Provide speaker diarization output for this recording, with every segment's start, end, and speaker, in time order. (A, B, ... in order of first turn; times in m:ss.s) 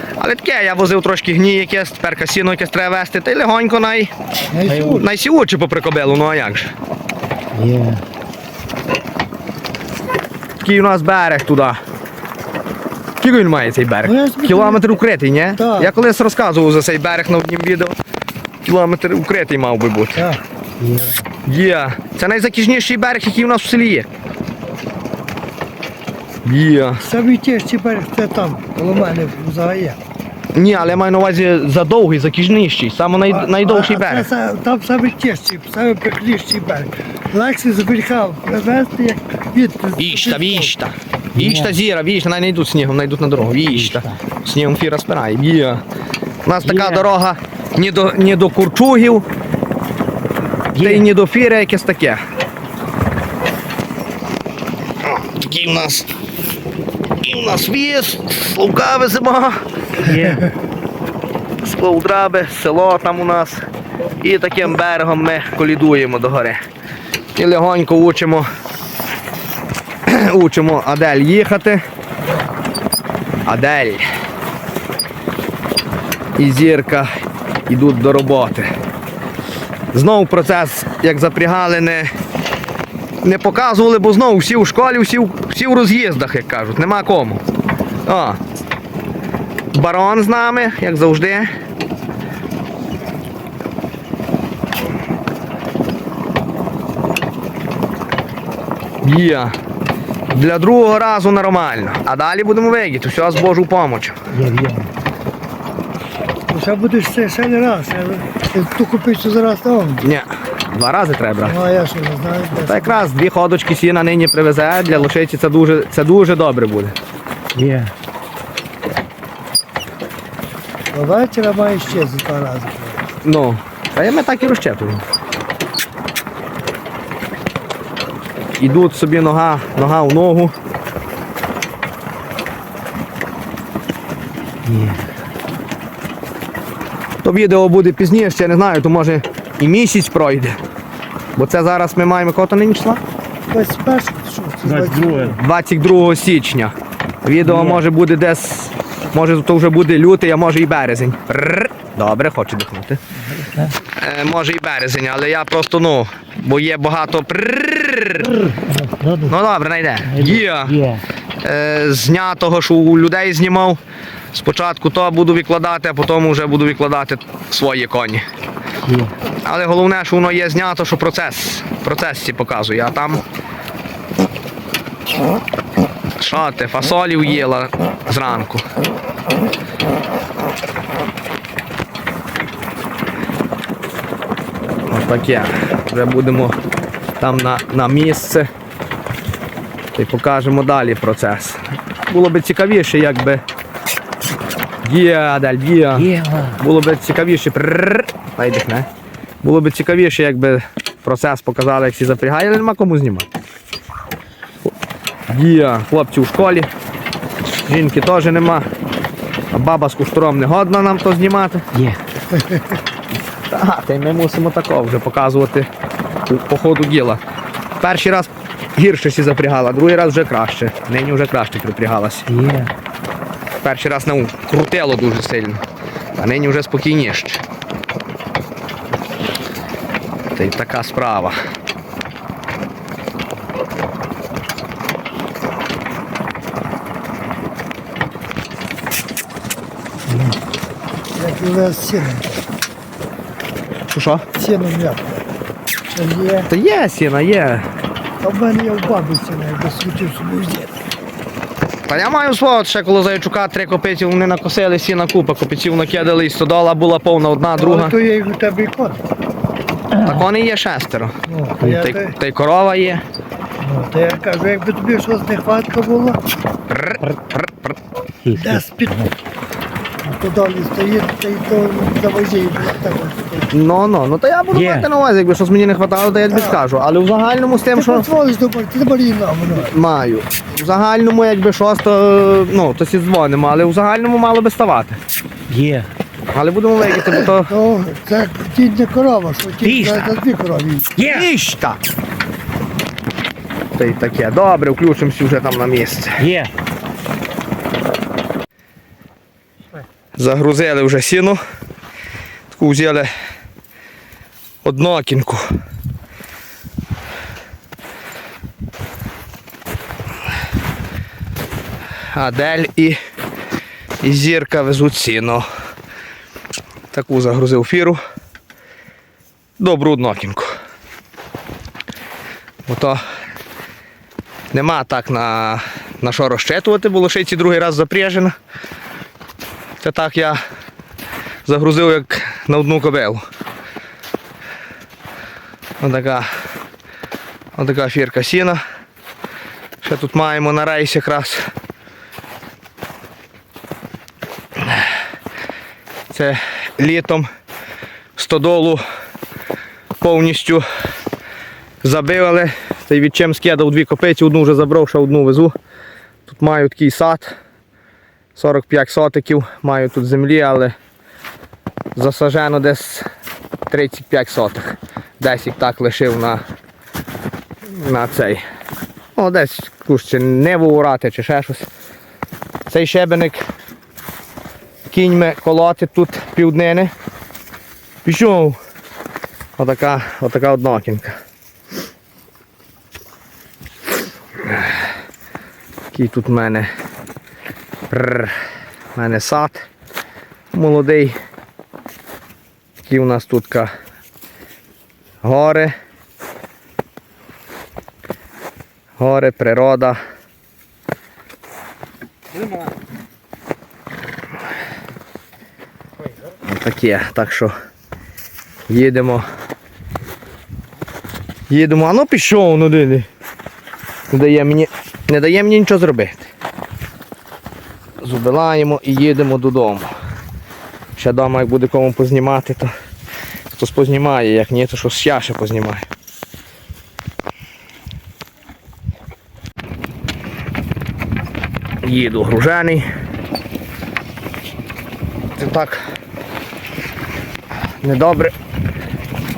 0:00.2-0:04.1 A
0:04.5-0:05.1 B
0:04.6-0:05.0 C
0:04.9-0:06.7 A
0:07.5-0:08.0 C
0:10.6-0:11.8 A
0:13.2-0:17.9 A
0:14.0-0:14.9 B
0:15.6-0:15.9 B
0:18.6-0:20.3 A
0:20.2-0:20.4 B
0:20.8-0:21.3 C
0:21.4-0:24.1 A
0:26.4-0:27.0 A
0:27.0-0:30.0 B
0:30.5-0:34.3 A
0:33.3-0:40.7 B
0:40.0-0:45.8 A
0:41.3-0:41.8 C
0:43.7-0:44.2 C
0:46.4-0:49.2 A
0:46.6-0:47.1 C
0:50.7-0:51.1 C
0:50.8-0:52.2 A
0:55.0-0:56.1 A
0:57.2-0:59.6 A
1:00.0-1:00.5 C
1:01.6-1:03.6 A
1:04.2-1:06.6 A
1:07.4-1:08.5 A
1:10.0-1:11.8 A
1:13.4-1:14.0 A
1:16.4-1:17.1 A
1:17.7-1:18.7 A
1:19.9-1:22.1 A
1:23.2-1:27.4 A
1:28.0-1:28.4 A
1:29.7-1:31.5 A
1:39.0-1:39.6 A
1:40.3-1:44.2 A
1:44.3-1:44.9 C
1:46.5-1:50.0 B
1:50.0-1:51.6 A
1:51.4-1:53.0 B
1:52.7-1:56.9 A
1:57.5-1:57.9 C
2:00.9-2:03.0 B
2:03.2-2:05.0 A
2:08.5-2:10.5 A
2:14.6-2:15.1 C
2:17.2-2:20.6 A
2:21.4-2:23.0 A
2:23.5-2:25.3 B
2:24.6-2:25.4 C
2:25.4-2:33.0 A
2:27.4-2:27.8 C
2:33.4-2:33.7 C
2:33.9-2:38.3 A
2:38.2-2:39.4 C
2:39.3-2:40.8 A
2:40.0-2:41.0 C
2:41.4-2:43.8 A
2:44.3-2:48.2 A
2:48.8-2:49.1 C
2:49.4-2:53.2 A
2:56.2-2:58.6 A
3:04.9-3:06.6 A
3:07.2-3:08.5 A
3:09.9-3:13.4 A
3:14.8-3:18.9 A
3:15.9-3:16.6 C
3:19.4-3:23.3 A
3:25.3-3:26.7 A
3:27.5-3:28.7 A
3:29.5-3:31.6 A
3:31.7-3:32.0 C
3:33.5-3:35.7 A
3:36.3-3:37.2 A
3:37.8-3:42.3 A
3:42.3-3:42.7 C
3:43.6-3:45.6 A
3:46.2-3:47.4 A
3:50.3-3:51.4 A
4:00.1-4:00.4 C
4:01.2-4:02.4 B
4:03.9-4:04.3 A
4:04.3-4:05.2 B
4:05.9-4:06.5 B
4:06.5-4:07.7 A
4:08.2-4:10.8 B
4:11.9-4:17.9 A
4:17.6-4:19.0 B
4:19.9-4:20.2 C
4:20.0-4:23.0 A
4:21.3-4:22.1 B
4:21.6-4:21.8 C
4:23.6-4:26.2 B
4:26.7-4:27.8 A
4:28.2-4:29.1 C
4:28.3-4:28.9 B
4:30.0-4:33.5 B
4:33.5-4:38.1 A
4:34.5-4:34.9 C
4:36.3-4:36.6 B
4:37.7-4:39.7 B
4:39.6-4:45.0 A
4:45.5-4:45.9 C
4:46.3-4:47.5 A
4:47.1-4:50.9 B
4:49.6-4:50.1 C
4:50.9-4:51.3 C
4:51.0-4:51.8 A
4:53.7-4:56.2 A
4:56.2-4:56.5 C
5:00.2-5:01.4 A
5:02.5-5:03.1 A
5:04.6-5:05.5 A
5:12.1-5:13.0 A
5:14.0-5:15.4 A
5:16.9-5:18.0 A
5:19.6-5:20.5 A
5:22.6-5:23.0 A
5:24.5-5:28.3 A
5:29.8-5:30.4 A
5:31.4-5:33.2 A
5:35.8-5:36.3 A
5:37.5-5:38.6 A
5:39.8-5:41.5 A
5:46.1-5:47.3 A
5:48.2-5:48.8 A
5:50.0-5:50.6 A
5:51.8-5:55.5 A
5:56.3-5:57.4 A
5:58.4-6:00.7 A
6:01.9-6:03.1 A
6:03.7-6:06.4 A
6:07.7-6:08.4 A
6:09.2-6:11.7 A
6:12.7-6:13.4 A
6:14.9-6:16.9 A
6:18.0-6:18.6 A
6:19.6-6:21.2 A
6:24.4-6:24.8 A
6:25.9-6:26.7 A
6:27.9-6:28.4 A
6:28.9-6:29.7 A
6:30.5-6:31.2 A
6:32.8-6:33.7 A
6:35.2-6:35.7 A
6:39.0-6:40.0 A
6:46.4-6:47.5 A
6:48.7-6:49.2 A
6:51.5-6:53.1 A
6:54.1-6:56.3 A
6:58.0-6:59.9 A
7:01.0-7:02.7 A
7:03.6-7:05.8 A
7:11.8-7:12.8 A
7:15.4-7:15.9 A
7:17.8-7:18.3 A